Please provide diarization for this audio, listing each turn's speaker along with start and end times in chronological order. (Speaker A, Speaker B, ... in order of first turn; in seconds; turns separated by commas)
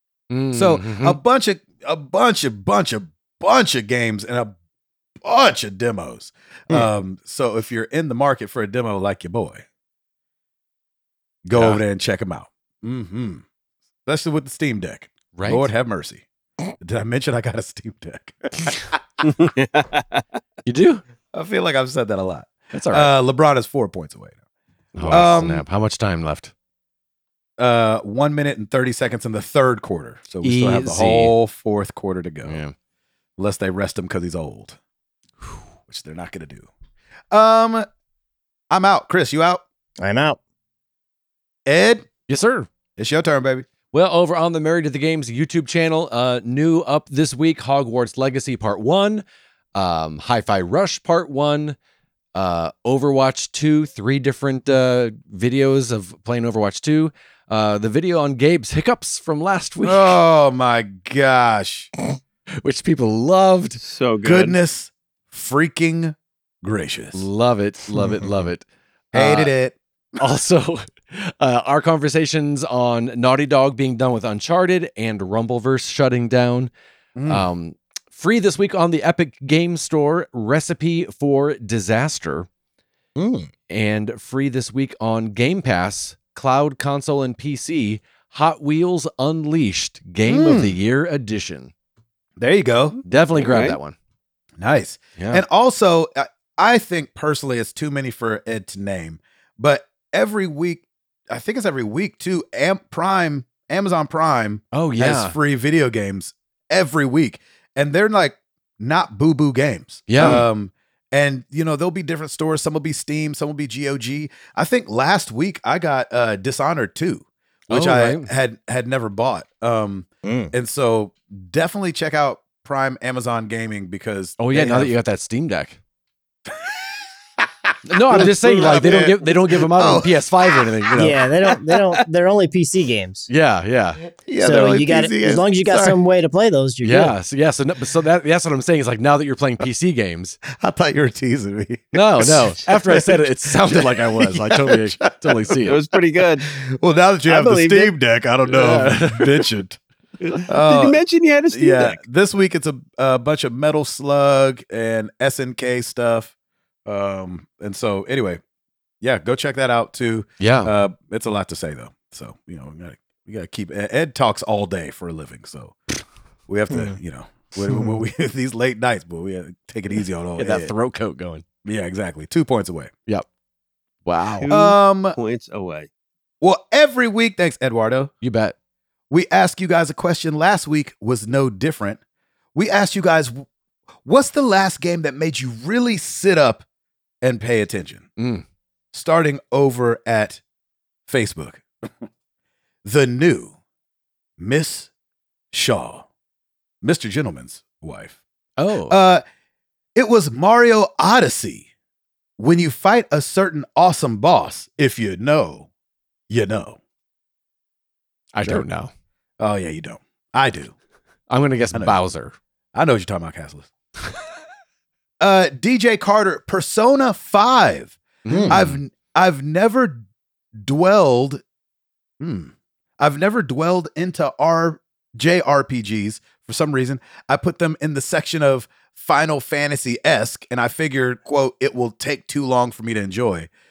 Speaker A: 0.3-1.2, Speaker B: 0.5-4.5, Speaker B: 5.2-9.6, Speaker B: 11.4-13.4, Speaker A: 11.5-11.8, Speaker B: 14.1-16.2, Speaker A: 15.3-15.7, Speaker B: 16.8-19.2, Speaker C: 19.2-20.2, Speaker A: 20.6-21.0, Speaker B: 21.3-24.3, Speaker A: 22.7-23.1, Speaker A: 24.9-26.5, Speaker B: 25.0-25.6, Speaker B: 27.6-32.6, Speaker A: 30.4-31.3, Speaker A: 32.4-32.7, Speaker B: 33.4-34.8, Speaker B: 35.9-36.7, Speaker B: 37.3-37.9, Speaker B: 38.7-39.6, Speaker D: 40.0-40.4, Speaker B: 41.6-42.1, Speaker A: 42.3-42.7, Speaker B: 43.0-43.7, Speaker A: 43.9-49.2, Speaker A: 49.7-51.8, Speaker A: 52.3-60.2, Speaker B: 59.8-61.9, Speaker A: 62.6-63.8, Speaker C: 63.8-64.6, Speaker B: 64.2-67.2, Speaker A: 67.1-69.5, Speaker B: 68.2-68.5, Speaker B: 69.1-69.8, Speaker A: 70.2-76.7, Speaker B: 77.2-77.4, Speaker A: 77.3-82.5, Speaker D: 83.2-83.5, Speaker A: 83.7-91.7, Speaker B: 90.2-90.8, Speaker B: 92.4-93.0, Speaker A: 93.1-93.9, Speaker C: 93.3-93.8, Speaker B: 94.6-124.9, Speaker A: 95.2-95.4, Speaker A: 104.7-105.3, Speaker A: 110.1-110.4, Speaker A: 117.7-118.3, Speaker D: 120.2-120.5, Speaker A: 124.4-125.8, Speaker B: 126.5-131.2, Speaker A: 127.8-131.2, Speaker C: 128.4-128.8, Speaker D: 131.0-133.3, Speaker A: 133.3-134.0, Speaker B: 134.1-136.0, Speaker D: 134.4-137.1, Speaker A: 136.8-140.4, Speaker B: 140.5-145.7, Speaker A: 141.9-145.8, Speaker C: 145.7-146.4, Speaker B: 146.4-149.8, Speaker C: 147.3-147.9, Speaker A: 148.5-149.5, Speaker C: 150.2-152.0, Speaker B: 150.5-156.3, Speaker B: 156.8-158.4, Speaker B: 159.0-165.8, Speaker A: 160.4-160.7, Speaker B: 166.5-170.7, Speaker D: 166.7-166.9, Speaker A: 170.4-171.4, Speaker B: 171.6-172.9, Speaker A: 174.1-174.5, Speaker C: 174.4-175.9, Speaker B: 174.5-175.2, Speaker B: 176.4-178.1, Speaker A: 178.2-178.5, Speaker B: 179.1-182.0, Speaker B: 182.5-183.4, Speaker B: 184.0-186.6, Speaker B: 187.2-188.1, Speaker A: 188.2-188.4, Speaker B: 188.9-190.4, Speaker B: 191.1-191.6, Speaker B: 192.8-193.6, Speaker B: 194.4-194.9, Speaker B: 195.5-196.1, Speaker B: 196.8-198.2, Speaker A: 198.6-199.0, Speaker B: 198.9-199.2, Speaker B: 199.9-201.7, Speaker B: 202.4-205.7, Speaker B: 206.3-206.8, Speaker A: 208.3-208.9, Speaker B: 209.4-210.7, Speaker A: 211.3-212.3, Speaker B: 212.7-213.7, Speaker B: 215.2-220.0, Speaker A: 218.2-218.8, Speaker D: 218.3-218.6, Speaker B: 220.6-221.4, Speaker B: 222.2-233.5